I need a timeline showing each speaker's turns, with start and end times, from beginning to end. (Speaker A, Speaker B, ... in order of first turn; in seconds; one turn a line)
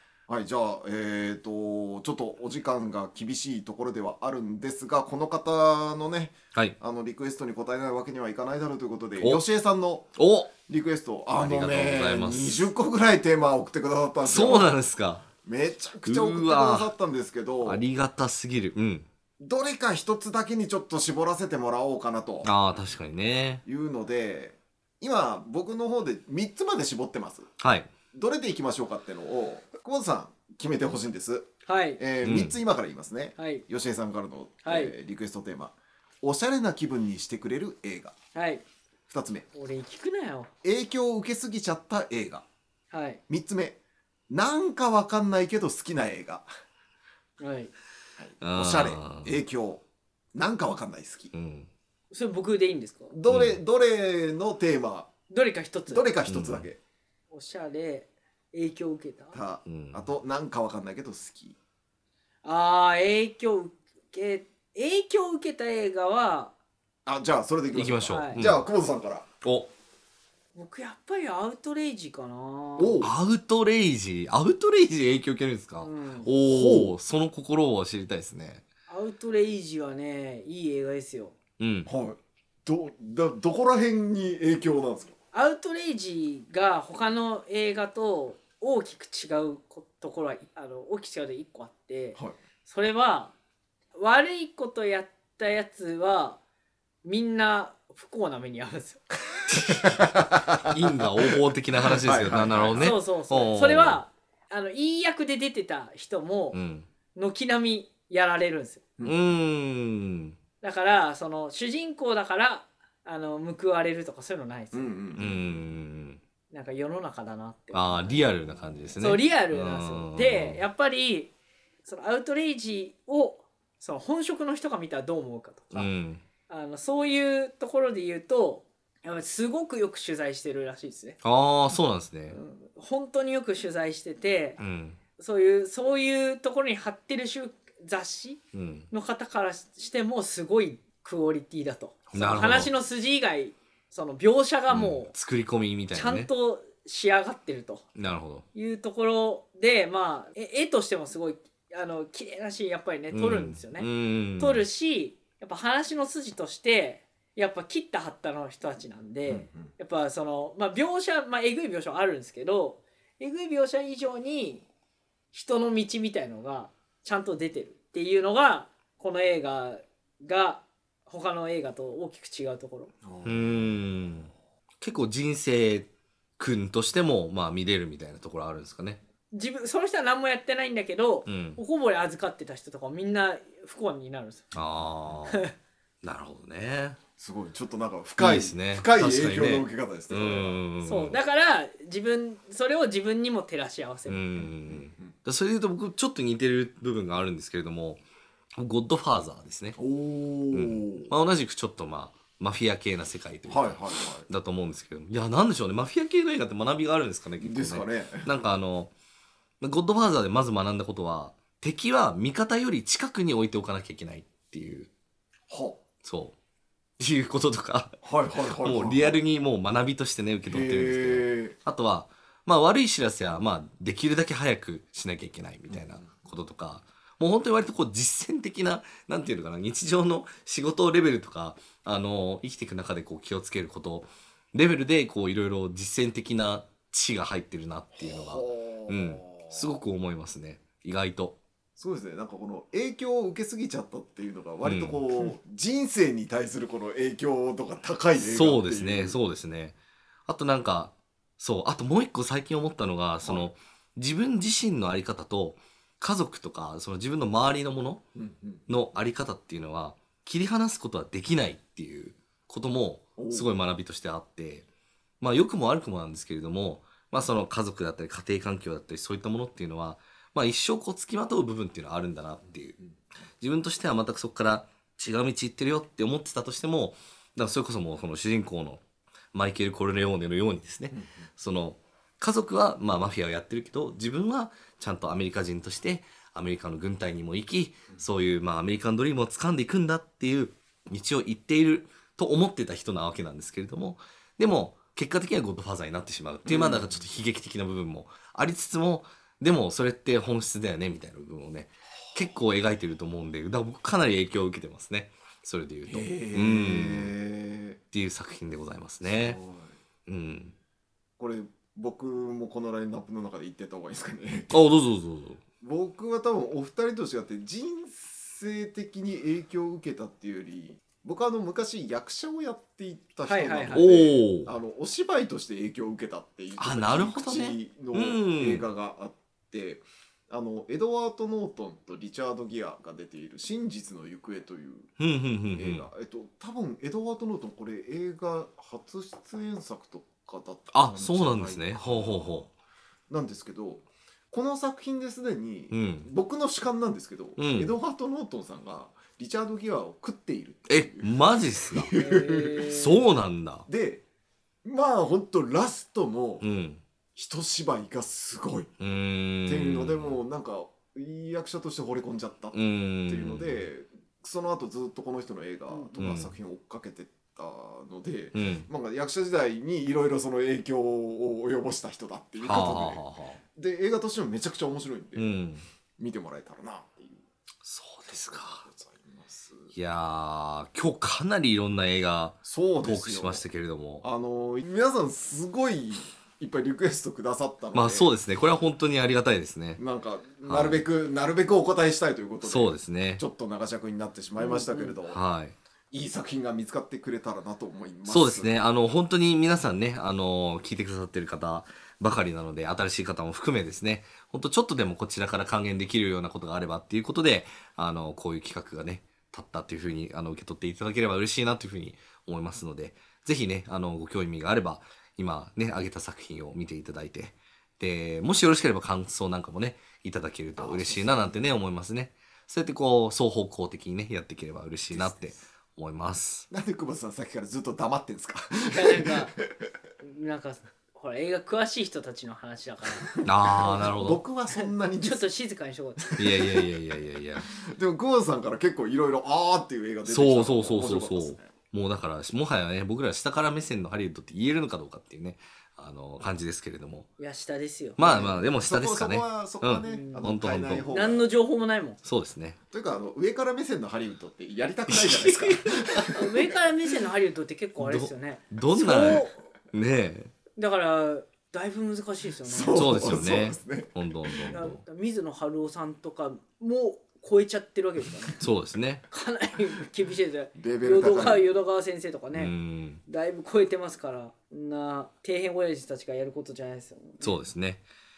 Speaker A: 0.3-14.7
Speaker B: 10.2-10.5
Speaker B: 11.4-12.7
Speaker B: 14.2-15.2
Speaker A: 15.4-17.8
Speaker B: 16.1-16.9
Speaker B: 17.6-19.1
Speaker A: 19.4-22.5
Speaker B: 22.4-23.6
Speaker A: 23.6-27.5
Speaker B: 27.6-27.9
Speaker A: 28.1-38.1
Speaker C: 31.6-32.0
Speaker B: 32.2-32.6
Speaker C: 33.4-33.6
Speaker C: 34.6-34.9
Speaker C: 38.3-38.6
Speaker A: 39.1-39.5
Speaker C: 39.5-40.5
Speaker A: 40.6-42.4
Speaker C: 42.9-43.2
Speaker A: 43.3-43.8
Speaker A: 44.3-46.5
Speaker C: 47.4-47.7
Speaker A: 48.2-49.8
Speaker B: 48.4-49.4
Speaker A: 50.3-51.3
Speaker B: 51.3-51.7
Speaker C: 52.1-53.1
Speaker A: 53.1-55.1
Speaker B: 53.3-53.6
Speaker C: 55.3-56.1
Speaker A: 55.9-56.8
Speaker B: 56.3-56.6
Speaker C: 57.3-59.4
Speaker A: 59.3-61.6
Speaker B: 59.6-60.1
Speaker C: 62.4-66.5
Speaker A: 67.1-69.3
Speaker B: 67.7-68.6
Speaker C: 68.1-68.4
Speaker B: 69.4-69.7
Speaker C: 70.5-73.0
Speaker A: 72.8-73.1
Speaker B: 73.0-78.6
Speaker C: 75.8-76.3
Speaker A: 76.3-76.9
Speaker C: 78.9-81.3
Speaker B: 81.6-81.9
Speaker A: 81.9-85.1
Speaker C: 85.3-93.3
Speaker C: 94.0-96.4
Speaker C: 97.0-99.1
Speaker A: 99.7-103.0
Speaker B: 100.6-104.0
Speaker C: 102.8-106.6
Speaker B: 106.5-106.9
Speaker C: 107.1-108.8
Speaker B: 109.0-110.4
Speaker C: 110.6-114.9
Speaker A: 114.7-115.6
Speaker B: 115.2-116.2
Speaker C: 116.5-118.2
Speaker B: 117.7-120.6
Speaker C: 119.0-121.3
Speaker C: 121.8-125.9
Speaker B: 125.7-126.2
Speaker C: 126.5-131.2
Speaker B: 131.2-132.4
Speaker C: 132.3-134.6
Speaker B: 134.6-135.0
Speaker C: 135.2-138.4
Speaker B: 138.5-138.9
Speaker C: 138.9-145.1
Speaker B: 142.1-142.7
Speaker B: 144.7-146.3
Speaker C: 145.9-147.8
Speaker B: 147.9-148.4
Speaker C: 148.5-164.6
Speaker B: 153.1-154.6
Speaker A: 159.3-159.7
Speaker C: 165.3-172.9
Speaker A: 173.0-173.7
Speaker B: 173.2-174.3
Speaker B: 174.8-179.0
Speaker C: 179.3-184.4
Speaker B: 181.2-181.6
Speaker B: 184.5-185.4
Speaker B: 186.0-187.0
Speaker A: 187.2-190.6
Speaker B: 188.2-191.2
Speaker C: 190.8-194.2
Speaker B: 194.1-198.0
Speaker A: 194.4-195.1
Speaker B: 198.6-199.8
Speaker A: 199.8-201.1
Speaker B: 200.5-208.9
Speaker A: 203.4-204.3
Speaker A: 207.4-208.3
Speaker B: 209.6-214.9
Speaker A: 215.5-215.8
Speaker B: 216.0-216.3
Speaker B: 217.0-241.4
Speaker A: 218.0-219.2
Speaker A: 220.5-221.6
Speaker A: 225.7-226.1
Speaker A: 238.0-239.7
Speaker A: 241.8-249.2
Speaker B: 244.6-245.0
Speaker B: 248.2-249.8
Speaker B: 250.3-258.0
Speaker A: 258.1-258.6
Speaker B: 258.7-264.6
Speaker A: 263.2-263.5
Speaker B: 265.2-272.8
Speaker B: 273.4-278.8
Speaker B: 279.3-307.1
Speaker A: 280.9-281.2
Speaker A: 296.5-297.0
Speaker A: 305.9-307.8
Speaker B: 307.9-309.4
Speaker A: 309.0-309.8
Speaker B: 310.1-310.5
Speaker A: 311.2-314.6
Speaker B: 314.5-315.4
Speaker A: 315.6-334.9
Speaker C: 323.3-323.9
Speaker B: 323.7-324.5
Speaker B: 326.6-328.6
Speaker B: 335.0-335.9
Speaker A: 335.5-342.5
Speaker B: 340.7-342.5
Speaker A: 343.1-351.1
Speaker B: 345.7-346.1
Speaker B: 347.4-347.7
Speaker B: 350.7-351.9
Speaker A: 351.7-352.8
Speaker C: 351.9-353.0
Speaker B: 352.7-353.6
Speaker A: 353.7-354.0
Speaker A: 354.6-356.4
Speaker B: 356.4-356.8
Speaker A: 357.1-358.7
Speaker B: 358.8-360.2
Speaker A: 359.5-373.0
Speaker B: 362.5-363.6
Speaker B: 366.0-366.3
Speaker B: 368.3-368.7
Speaker B: 372.4-373.4
Speaker A: 373.5-375.4
Speaker B: 375.1-375.6
Speaker A: 376.0-377.2
Speaker B: 377.6-378.6
Speaker A: 378.1-379.7
Speaker B: 379.7-384.0
Speaker A: 382.4-383.4
Speaker A: 384.0-388.1
Speaker B: 387.7-389.8
Speaker A: 389.8-395.2
Speaker B: 390.4-390.8
Speaker B: 392.4-393.2
Speaker B: 395.1-395.6
Speaker A: 395.9-398.5
Speaker B: 398.1-426.5
Speaker A: 420.6-421.4
Speaker A: 424.9-425.4
Speaker A: 426.5-429.7
Speaker C: 428.6-429.3
Speaker C: 430.0-433.1
Speaker A: 433.1-435.2
Speaker B: 433.2-434.2
Speaker C: 434.5-436.4
Speaker A: 436.0-436.6
Speaker B: 436.2-437.5
Speaker A: 437.5-441.5
Speaker B: 440.1-447.1
Speaker C: 447.2-448.0
Speaker B: 448.0-450.9
Speaker A: 448.0-451.3
Speaker C: 449.8-450.3
Speaker C: 450.9-452.0
Speaker B: 452.0-452.6
Speaker A: 452.7-456.5
Speaker B: 454.9-455.8
Speaker C: 455.8-459.5
Speaker B: 457.8-460.3
Speaker C: 460.6-463.2
Speaker A: 462.4-464.6
Speaker B: 462.7-464.8
Speaker C: 464.5-468.4
Speaker B: 468.4-469.0
Speaker C: 469.1-472.5
Speaker A: 470.6-471.5
Speaker B: 472.3-473.0
Speaker C: 473.1-477.4
Speaker B: 477.2-477.8